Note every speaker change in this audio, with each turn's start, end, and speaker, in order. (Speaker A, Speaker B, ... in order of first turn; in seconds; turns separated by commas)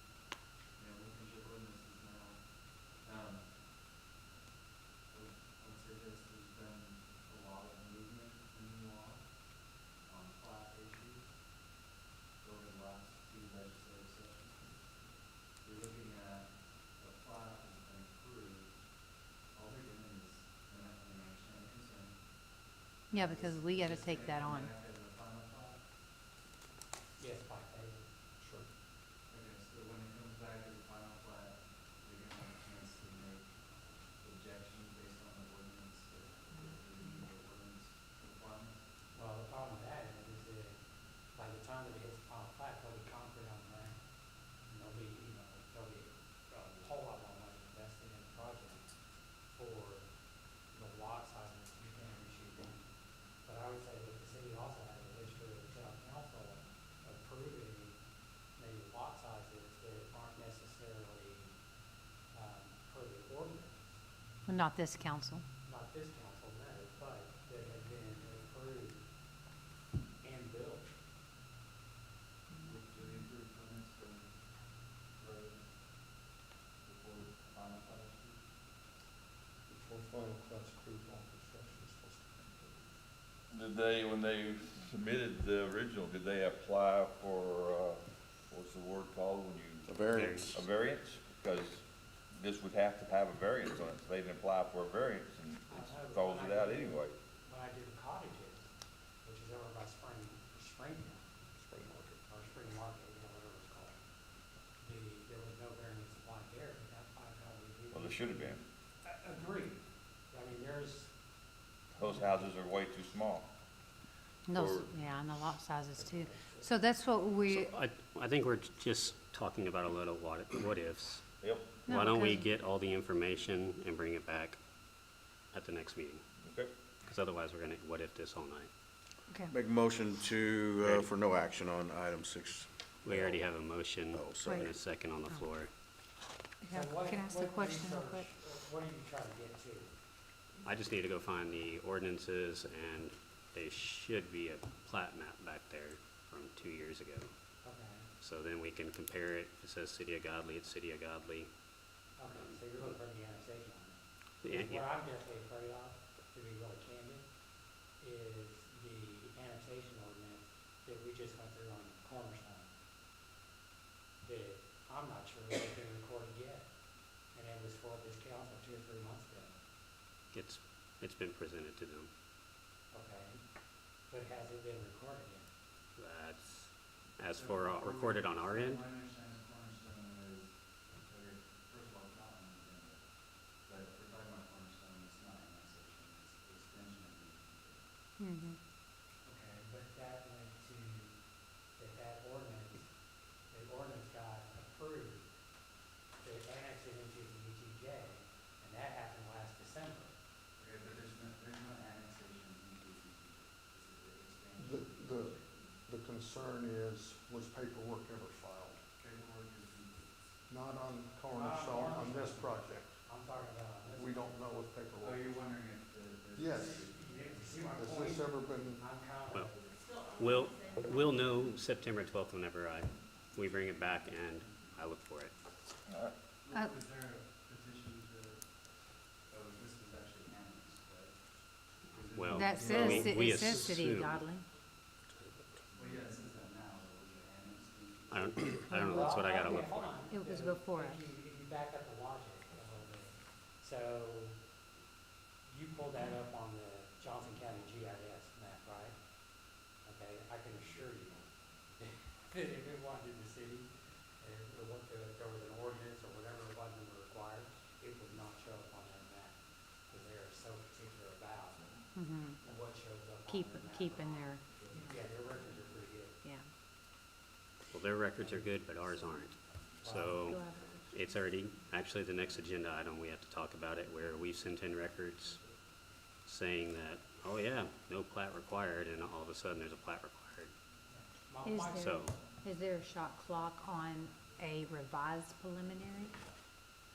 Speaker A: 0.7-3.5, Speaker A: 5.1-11.6, Speaker A: 12.4-25.8, Speaker B: 23.1-24.7, Speaker C: 27.2-28.1, Speaker D: 28.4-28.6, Speaker A: 29.3-38.8, Speaker C: 39.1-40.8, Speaker C: 41.3-44.0, Speaker C: 44.6-48.9, Speaker C: 49.5-50.0, Speaker C: 50.7-52.8, Speaker C: 53.4-58.0, Speaker C: 58.6-61.5, Speaker C: 62.3-63.9, Speaker B: 64.5-65.4, Speaker C: 65.6-69.0, Speaker C: 70.2-70.9, Speaker A: 72.6-78.5, Speaker D: 79.7-83.0, Speaker E: 83.5-97.2, Speaker F: 89.8-90.7, Speaker G: 90.1-90.5, Speaker C: 95.7-98.7, Speaker C: 99.2-101.3, Speaker D: 101.5-102.2, Speaker C: 102.2-104.0, Speaker C: 104.8-111.1, Speaker E: 107.9-108.6, Speaker E: 111.9-113.5, Speaker B: 114.4-117.7, Speaker E: 114.5-114.9, Speaker D: 116.1-116.6, Speaker G: 117.5-121.2, Speaker E: 121.4-121.7, Speaker B: 121.8-122.5, Speaker G: 121.9-124.6, Speaker G: 125.5-126.2, Speaker E: 126.4-126.7, Speaker G: 127.0-128.7, Speaker B: 129.3-129.5, Speaker F: 129.5-134.7, Speaker G: 133.0-135.7, Speaker B: 136.6-138.3, Speaker C: 136.7-139.9, Speaker G: 140.6-147.3, Speaker C: 147.6-148.1, Speaker G: 148.2-151.5, Speaker C: 152.2-157.3, Speaker G: 154.4-154.8, Speaker C: 158.0-162.7, Speaker C: 164.2-166.7, Speaker C: 167.3-169.6, Speaker G: 170.3-172.1, Speaker C: 172.9-173.4, Speaker C: 174.1-175.5, Speaker G: 175.9-178.8, Speaker A: 177.3-187.9, Speaker B: 188.2-188.6, Speaker C: 189.2-191.2, Speaker C: 191.7-192.9, Speaker C: 193.5-195.3, Speaker C: 196.2-200.1, Speaker A: 200.6-205.7, Speaker D: 204.6-208.8, Speaker A: 209.0-210.3, Speaker D: 210.5-213.0, Speaker C: 211.3-214.4, Speaker D: 213.9-215.3, Speaker A: 215.0-217.5, Speaker D: 216.3-216.9, Speaker C: 216.5-219.7, Speaker D: 217.6-218.9, Speaker G: 220.1-225.4, Speaker E: 225.8-226.1, Speaker A: 226.4-233.7, Speaker G: 232.1-234.2, Speaker B: 232.3-234.4, Speaker A: 235.7-238.6, Speaker G: 238.1-240.1, Speaker B: 238.7-239.2, Speaker C: 238.8-244.4, Speaker B: 240.0-241.1, Speaker C: 245.4-249.0, Speaker C: 249.7-266.2, Speaker B: 261.9-262.4, Speaker B: 263.2-264.8, Speaker A: 264.6-264.9, Speaker B: 266.2-266.5, Speaker G: 267.7-275.4, Speaker C: 269.8-270.2, Speaker B: 270.1-270.9, Speaker G: 276.2-280.5, Speaker C: 280.9-282.1, Speaker B: 281.4-286.2, Speaker G: 281.7-282.2